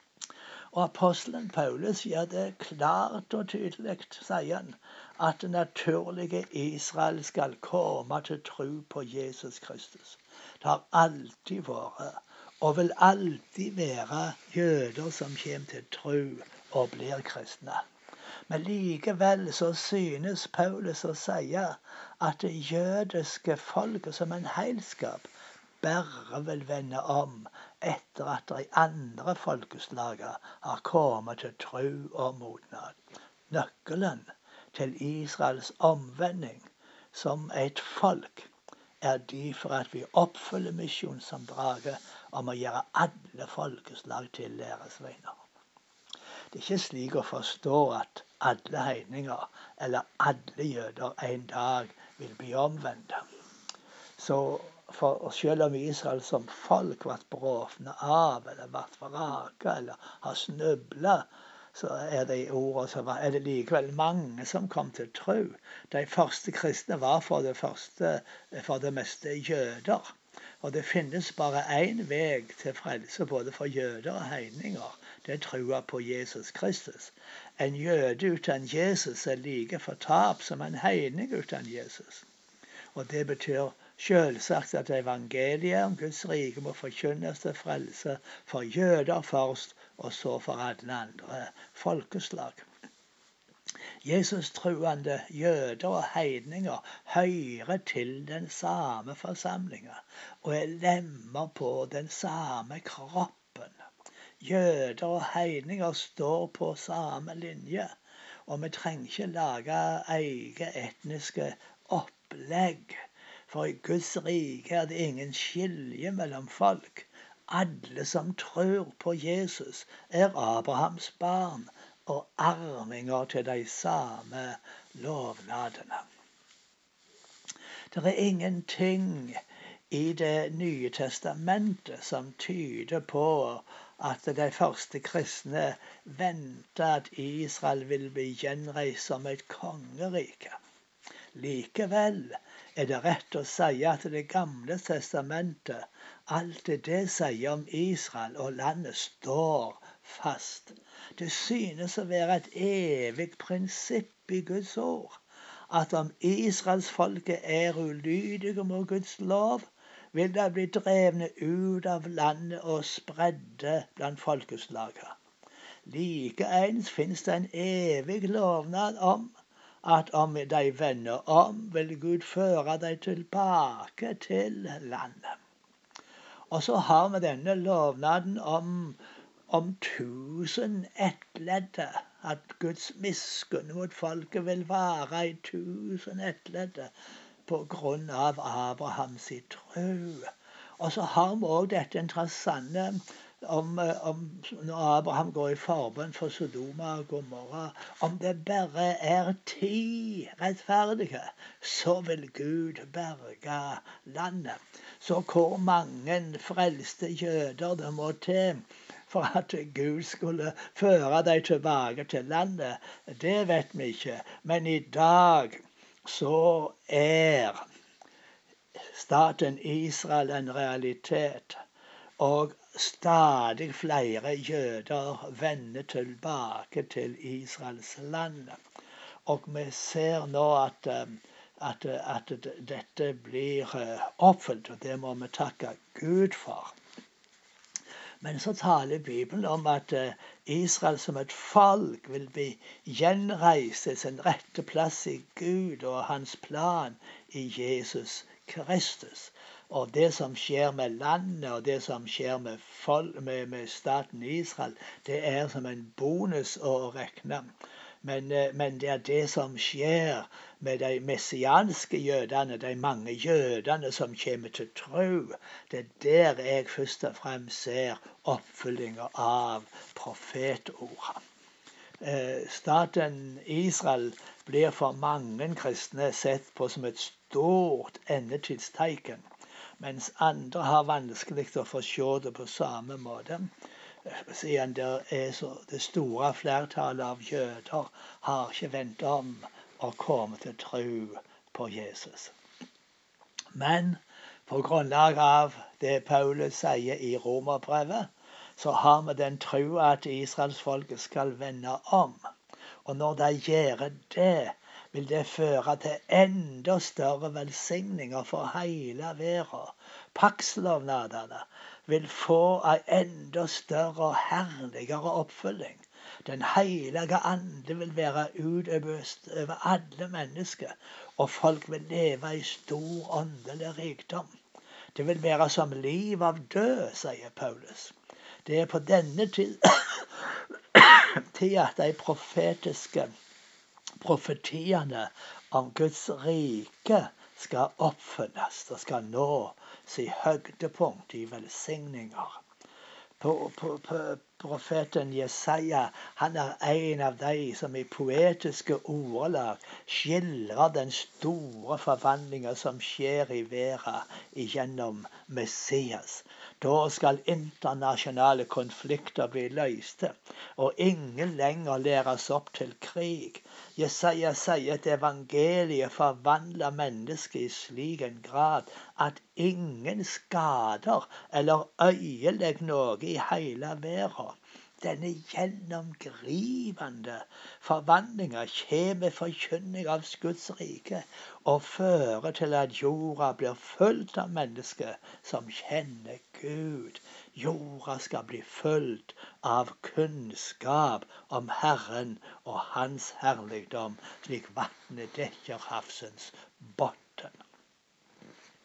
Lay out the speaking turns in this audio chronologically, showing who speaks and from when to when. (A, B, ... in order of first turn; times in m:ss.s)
0:00.7-0:17.8 A
0:18.5-0:25.3 A
0:25.8-0:33.0 A
0:33.5-0:38.5 A
0:39.0-0:45.4 A
0:46.5-0:53.2 A
0:54.2-1:22.3 A
1:23.0-1:32.7 A
1:34.0-1:43.8 A
1:44.4-1:48.0 A
1:48.5-2:06.0 A
2:07.9-2:20.6 A
2:21.3-2:45.2 A
2:45.9-2:55.4 A
2:56.5-3:06.9 A
3:07.5-3:37.6 A
3:38.9-3:41.6 A
3:42.2-3:48.6 A
3:49.3-3:56.8 A
3:58.2-4:31.2 A
4:32.0-4:39.3 A
4:39.8-4:43.5 A
4:44.0-4:52.3 A
4:53.6-5:02.2 A
5:02.8-5:24.3 A
5:25.0-5:27.9 A
5:28.4-5:33.1 A
5:34.0-5:42.4 A
5:43.2-6:37.4 A